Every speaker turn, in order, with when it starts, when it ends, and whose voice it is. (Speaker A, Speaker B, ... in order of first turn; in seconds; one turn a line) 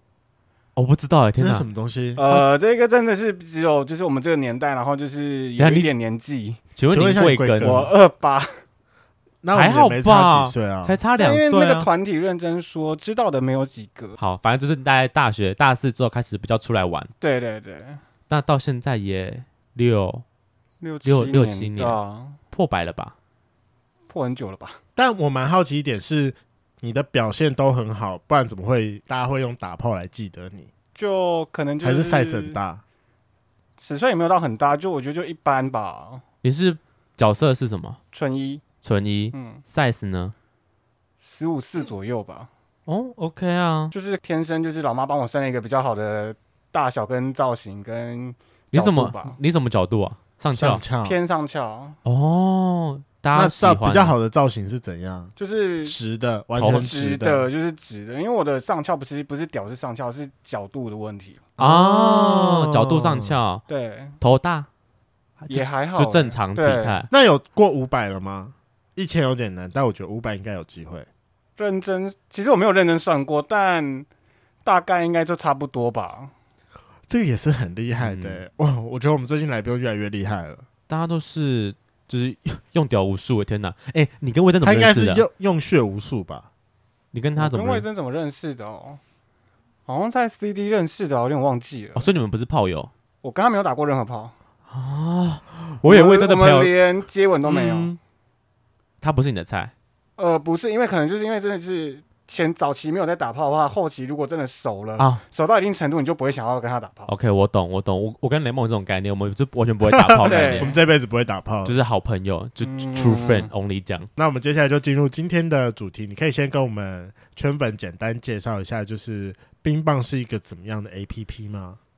Speaker A: 0.8-1.6
Speaker B: 1.4-2.2
Speaker C: 2.2-6.6
Speaker A: 5.6-5.9
Speaker A: 6.8-7.8
Speaker B: 6.9-7.9
Speaker C: 7.6-8.6
Speaker B: 9.4-11.0
Speaker A: 9.5-11.9
Speaker C: 11.2-14.2
Speaker A: 14.2-17.1
Speaker C: 17.2-18.0
Speaker A: 18.3-20.2
Speaker C: 20.8-22.4
Speaker A: 21.0-22.0
Speaker A: 22.5-23.1
Speaker C: 24.1-24.8
Speaker B: 24.9-30.7
Speaker C: 30.9-32.6
Speaker B: 31.8-32.8
Speaker C: 33.8-36.2
Speaker A: 36.4-38.0
Speaker C: 38.1-38.6
Speaker A: 38.8-40.3
Speaker C: 39.3-39.6
Speaker C: 41.2-42.5
Speaker A: 42.9-43.9
Speaker C: 43.9-49.4
Speaker A: 48.7-50.8
Speaker B: 50.5-51.1
Speaker C: 51.0-52.0
Speaker A: 52.0-54.1
Speaker B: 53.3-55.3
Speaker C: 55.4-56.0
Speaker B: 55.8-57.5
Speaker A: 56.6-56.9
Speaker C: 56.6-61.4
Speaker B: 61.6-63.4
Speaker A: 61.6-63.6
Speaker C: 63.7-64.2
Speaker A: 64.2-64.7
Speaker A: 65.4-67.1
Speaker C: 65.5-67.0
Speaker B: 67.1-71.1
Speaker C: 71.6-74.1
Speaker C: 74.6-76.3
Speaker B: 77.1-80.6
Speaker A: 78.0-78.4
Speaker A: 80.9-85.2
Speaker B: 84.6-86.5
Speaker A: 87.1-87.8
Speaker C: 87.4-89.0
Speaker C: 89.9-92.1
Speaker A: 92.0-92.9
Speaker C: 93.2-94.3
Speaker A: 94.7-96.7
Speaker C: 95.8-97.9
Speaker B: 97.5-98.0
Speaker A: 99.0-99.7
Speaker C: 100.2-107.1
Speaker A: 107.1-110.7
Speaker B: 109.9-111.8
Speaker C: 110.2-110.8
Speaker A: 111.6-114.1
Speaker C: 112.6-113.5
Speaker B: 114.2-121.8